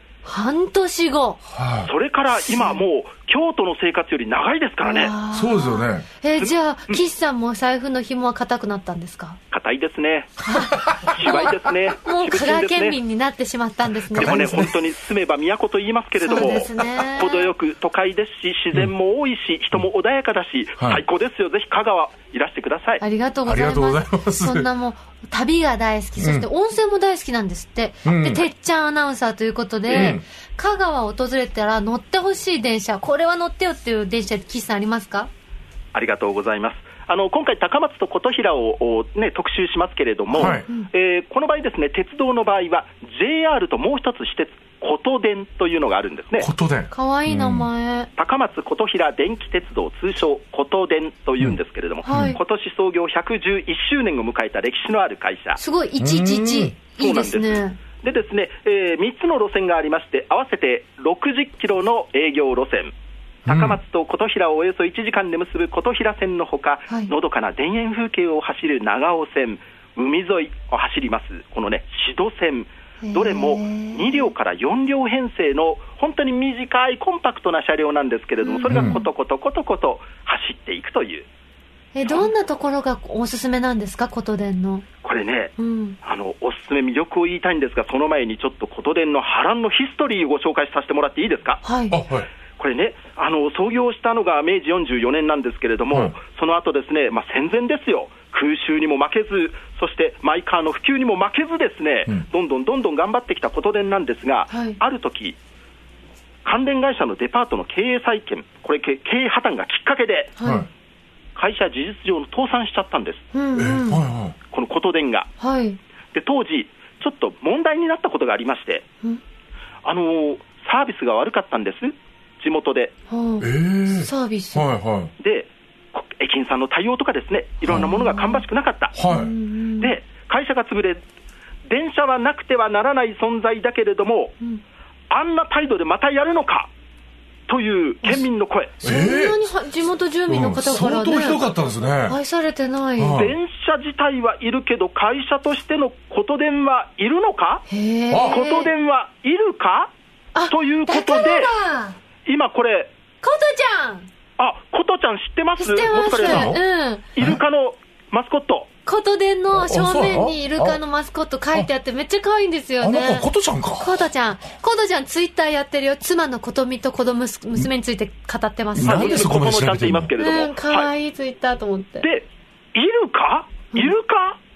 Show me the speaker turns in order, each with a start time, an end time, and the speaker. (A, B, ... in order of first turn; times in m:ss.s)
0:00.2-0:01.4 A
0:01.5-0:01.9 B
0:01.8-0:05.1 C
0:02.5-0:02.8 A
0:04.8-0:09.4 A
0:05.3-0:06.1 B
0:06.4-0:07.0 C
0:09.5-0:10.4 C
0:10.4-0:14.6 A
0:11.0-0:13.0 C
0:14.1-0:14.8 B
0:14.2-0:23.0 C
0:16.2-0:17.5 A
0:20.8-0:21.0 B
0:23.0-0:35.3 A
0:23.5-0:24.7 B
0:26.2-0:26.5 B
0:28.0-0:28.4 B
0:29.9-0:30.2 C
0:29.9-0:30.2 B
0:35.9-0:46.5 C
0:40.3-0:40.7 B
0:46.4-0:47.7 B
0:46.9-0:48.1 A
0:48.2-0:55.6 C
0:52.0-0:52.4 A
0:52.1-0:52.4 B
0:55.6-0:57.8 A
0:56.0-0:56.7 B
0:57.0-1:02.9 C
1:03.5-1:03.8 B
1:03.5-1:21.3 C
1:13.0-1:14.3 A
1:18.4-1:19.1 A
1:18.7-1:19.0 B
1:21.9-1:24.8 A
1:22.1-1:22.3 C
1:25.0-1:31.6 C
1:25.6-1:26.0 A
1:31.6-1:32.0 A
1:31.9-1:32.3 B
1:32.6-1:45.4 C
1:44.5-1:44.8 A
1:46.4-1:50.4 C
1:50.4-1:50.7 A
1:50.4-1:50.7 B
1:51.4-1:53.3 C
1:53.3-1:54.0 A
1:53.6-1:54.4 B
1:54.5-1:55.3 C
1:55.4-1:55.8 A
1:56.1-1:58.8 C
1:59.8-2:02.9 C
2:03.1-2:04.7 A
2:03.4-2:05.1 B
2:05.2-2:09.0 C
2:07.7-2:08.0 B
2:08.0-2:08.4 A
2:08.9-2:09.3 B
2:09.1-2:09.9 A
2:09.8-2:11.0 C
2:11.7-2:14.4 C
2:15.1-2:16.7 C
2:17.5-2:18.8 C
2:18.8-2:19.4 B
2:18.8-2:21.4 A
2:20.3-2:22.2 B
2:22.1-2:23.2 A
2:23.0-2:23.4 B
2:23.1-2:27.7 C
2:27.7-2:28.7 A
2:28.1-2:28.4 B
2:28.3-2:29.9 C
2:30.4-2:32.0 A
2:30.5-2:31.5 C
2:32.2-2:32.9 C
2:33.2-2:34.1 A
2:34.4-2:36.6 C
2:35.6-2:37.1 A
2:36.2-2:36.6 B
2:37.1-2:38.7 C
2:38.9-2:43.3 A
2:39.5-2:40.8 B
2:42.8-2:44.0 B
2:43.8-2:49.3 A
2:48.8-2:50.1 B
2:48.8-2:50.9 C
2:50.2-2:52.1 A
2:52.0-2:54.4 C